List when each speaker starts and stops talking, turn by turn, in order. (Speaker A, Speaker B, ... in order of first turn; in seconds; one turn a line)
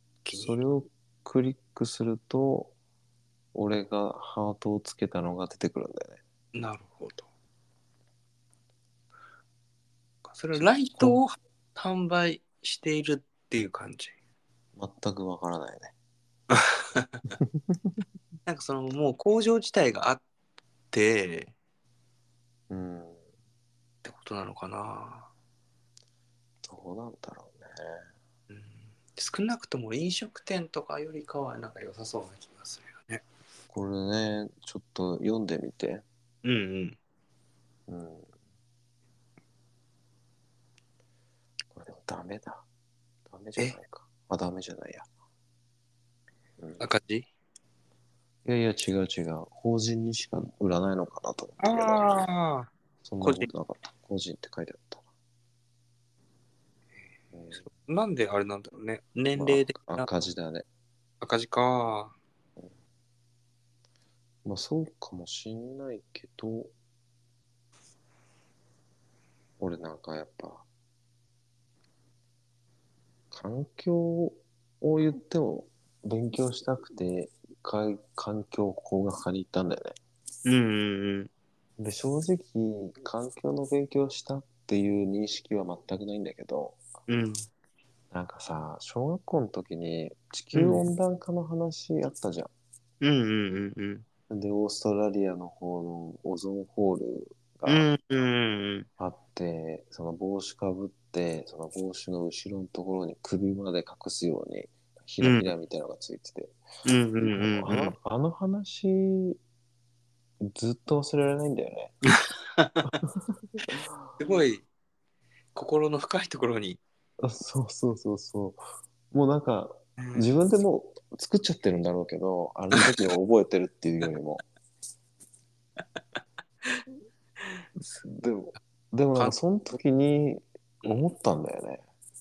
Speaker A: 0.2-0.5
Speaker B: 0.3-2.7
Speaker B: 3.5-6.2
Speaker A: 6.5-7.3
Speaker A: 10.3-14.1
Speaker B: 10.5-11.2
Speaker B: 14.8-15.9
Speaker A: 16.5-17.3
Speaker B: 17.4-18.0
Speaker A: 18.4-20.2
Speaker A: 20.9-21.5
Speaker B: 22.7-23.2
Speaker A: 24.0-25.3
Speaker B: 26.6-28.1
Speaker A: 28.5-33.2
Speaker B: 33.7-36.0
Speaker A: 36.4-37.0
Speaker B: 37.9-38.3
Speaker B: 41.7-42.6
Speaker B: 43.3-45.1
Speaker B: 46.6-46.8
Speaker A: 46.8-47.3
Speaker B: 48.4-52.2
Speaker A: 51.6-52.7
Speaker B: 53.0-55.0
Speaker A: 53.2-53.5
Speaker B: 57.3-57.7
Speaker A: 57.5-60.1
Speaker B: 59.3-60.6
Speaker A: 61.2-62.1
Speaker B: 64.4-66.7
Speaker B: 69.6-70.7
Speaker B: 73.3-80.0
Speaker A: 80.4-81.3
Speaker B: 81.8-86.8
Speaker A: 87.1-87.5
Speaker B: 88.1-92.5
Speaker A: 90.5-90.9
Speaker A: 93.0-94.0
Speaker B: 94.3-97.9
Speaker A: 97.7-98.9
Speaker B: 99.0-106.5
Speaker A: 105.2-105.5
Speaker A: 106.8-107.9
Speaker B: 107.3-109.4
Speaker B: 110.4-111.9
Speaker A: 112.0-112.9
Speaker B: 113.0-113.9
Speaker A: 114.2-114.7
Speaker A: 115.5-116.8
Speaker B: 117.2-124.4
Speaker A: 120.0-120.3
Speaker B: 128.0-131.8